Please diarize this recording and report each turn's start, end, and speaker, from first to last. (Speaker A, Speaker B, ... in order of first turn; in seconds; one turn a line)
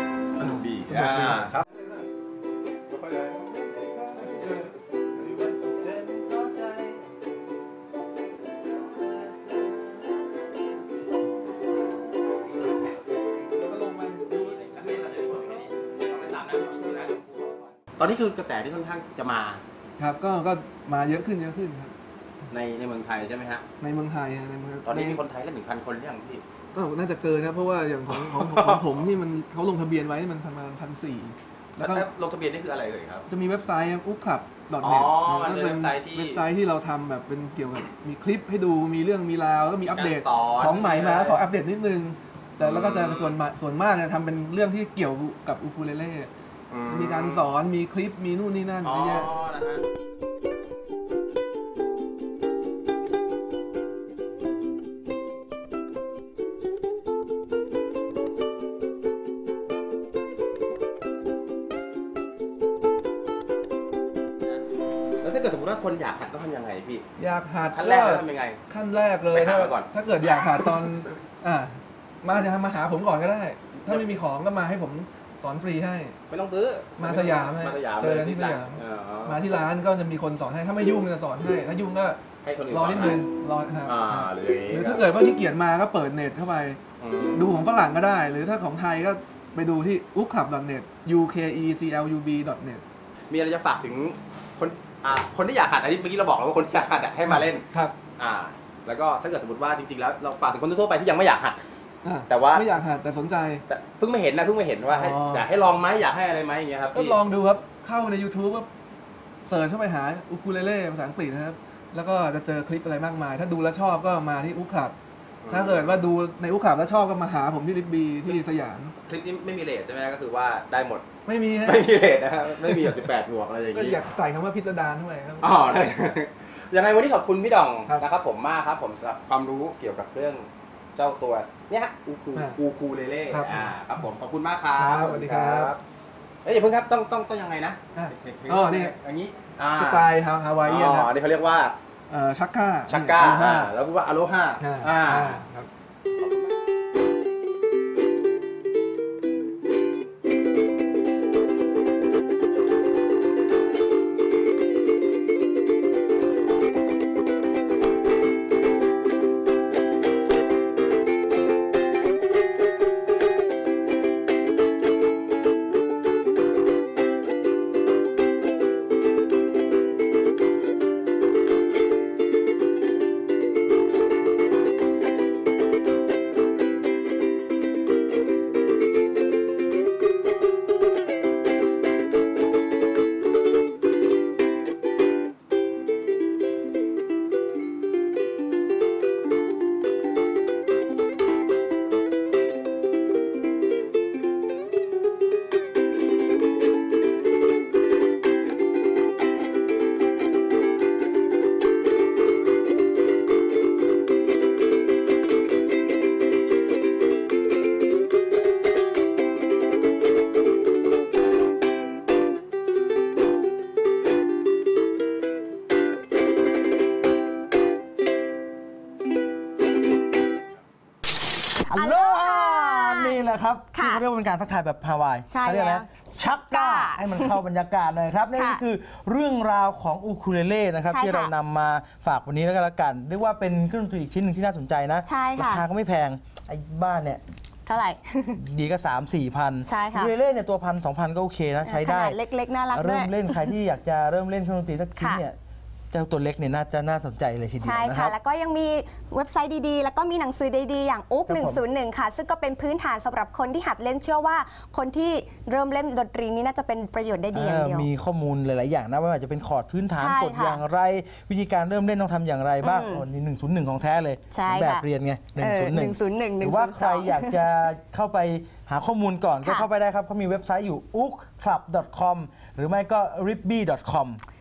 Speaker A: 0.4-1.6
Speaker B: 0.4-2.1
Speaker A: 2.9-7.0
Speaker A: 12.3-13.5
Speaker B: 13.5-15.1
Speaker A: 14.3-19.6
Speaker B: 20.0-21.9
Speaker A: 22.5-23.6
Speaker B: 23.8-25.2
Speaker A: 24.9-26.4
Speaker B: 26.7-32.1
Speaker A: 28.1-29.0
Speaker A: 31.8-33.2
Speaker B: 33.3-49.3
Speaker A: 34.8-36.5
Speaker A: 39.9-41.5
Speaker A: 42.6-43.4
Speaker A: 46.7-47.5
Speaker A: 48.8-49.8
Speaker A: 65.2-67.0
Speaker B: 67.2-76.2
Speaker A: 67.7-68.6
Speaker A: 69.3-70.7
Speaker A: 73.9-74.2
Speaker A: 76.3-79.5
Speaker B: 77.0-86.8
Speaker A: 82.4-83.2
Speaker A: 83.8-85.1
Speaker A: 87.0-87.5
Speaker B: 87.3-92.8
Speaker A: 93.3-97.6
Speaker B: 97.2-98.0
Speaker A: 98.2-101.6
Speaker B: 102.0-103.6
Speaker A: 102.3-102.7
Speaker A: 103.7-107.2
Speaker B: 104.9-105.5
Speaker B: 106.9-108.7
Speaker B: 109.4-115.0
Speaker A: 115.4-116.0
Speaker B: 115.5-118.9
Speaker A: 119.0-121.1
Speaker B: 121.2-121.9
Speaker A: 121.6-124.0
Speaker B: 122.6-123.0
Speaker B: 123.7-126.1
Speaker A: 125.4-135.8
Speaker B: 132.3-132.6
Speaker B: 133.3-133.8
Speaker B: 134.7-135.8
Speaker A: 136.4-140.1
Speaker B: 137.9-138.9
Speaker B: 139.7-141.2
Speaker A: 140.6-141.8
Speaker B: 142.1-143.8
Speaker A: 142.9-145.4
Speaker B: 144.6-145.7
Speaker A: 146.2-146.5
Speaker C: 221.7-223.2
Speaker D: 221.7-237.2
Speaker C: 223.7-224.0
Speaker C: 225.3-227.4
Speaker C: 228.4-228.6
Speaker C: 230.8-231.3
Speaker C: 235.0-235.6
Speaker C: 237.7-238.4
Speaker D: 238.3-242.2
Speaker C: 239.6-240.1
Speaker C: 241.6-243.5
Speaker D: 242.7-245.4
Speaker C: 245.0-245.2
Speaker D: 245.9-248.1
Speaker C: 247.6-257.9
Speaker D: 251.3-251.6
Speaker D: 257.3-274.2
Speaker C: 259.9-260.6
Speaker C: 262.6-263.0
Speaker C: 264.3-267.4
Speaker C: 269.4-269.7